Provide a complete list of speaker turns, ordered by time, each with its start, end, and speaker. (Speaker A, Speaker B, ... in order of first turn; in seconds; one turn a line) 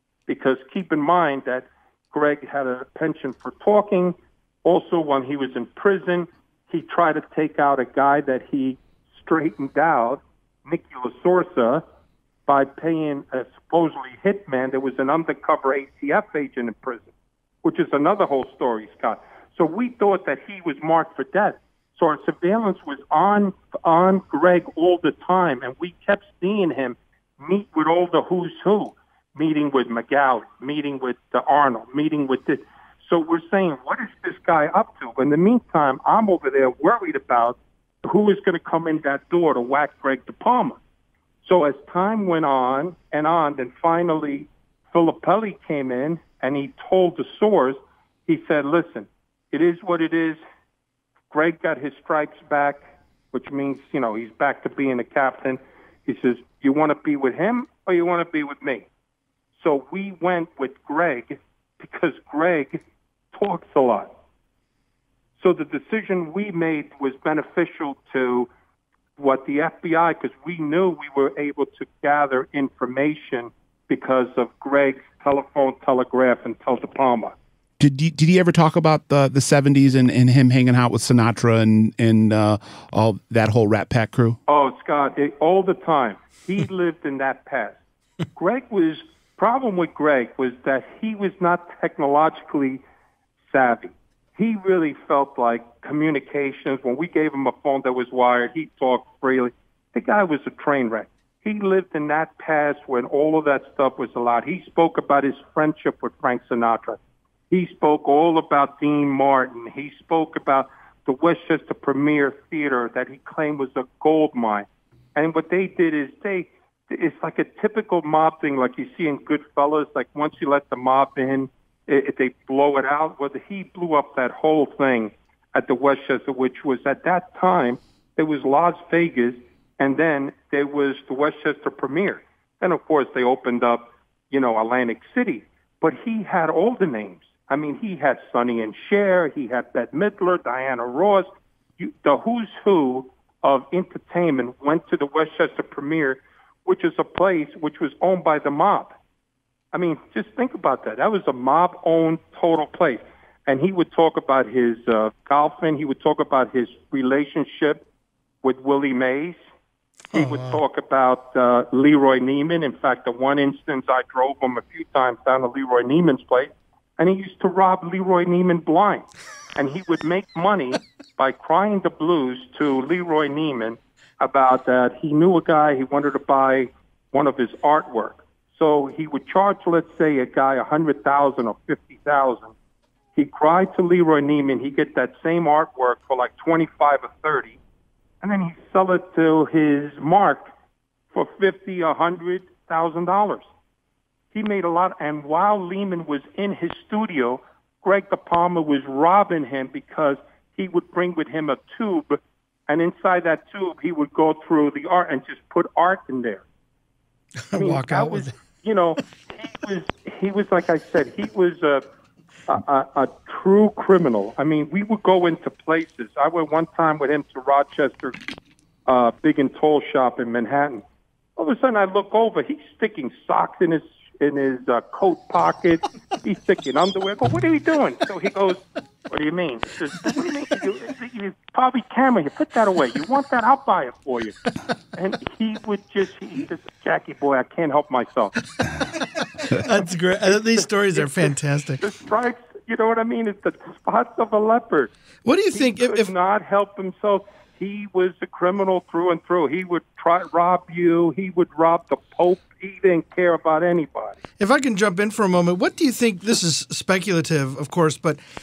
Speaker A: 0.3-11.8
Speaker A: 12.5-17.1
Speaker A: 17.6-40.8
Speaker A: 41.4-50.4
Speaker A: 51.3-52.8
Speaker A: 53.3-58.9
Speaker A: 59.6-62.8
Speaker A: 63.3-64.1
Speaker A: 65.4-68.5
Speaker A: 69.2-77.3
Speaker B: 77.8-84.4
Speaker A: 84.5-87.8
Speaker A: 88.3-92.8
Speaker A: 93.5-107.0
Speaker A: 107.5-141.3
Speaker A: 141.8-148.9
Speaker A: 149.7-157.8
Speaker A: 158.4-159.4
Speaker A: 160.1-182.5
Speaker C: 160.1-160.6
Speaker A: 183.1-187.6
Speaker A: 188.2-190.5
Speaker A: 191.1-193.4
Speaker A: 194.3-206.4
Speaker C: 207.5-208.3
Speaker A: 207.5-211.8
Speaker A: 212.5-218.1
Speaker A: 218.9-220.8
Speaker A: 221.3-234.3
Speaker A: 234.9-238.3
Speaker C: 239.4-241.8
Speaker A: 240.3-244.9
Speaker C: 245.2-246.1
Speaker A: 245.5-254.1
Speaker C: 254.4-258.2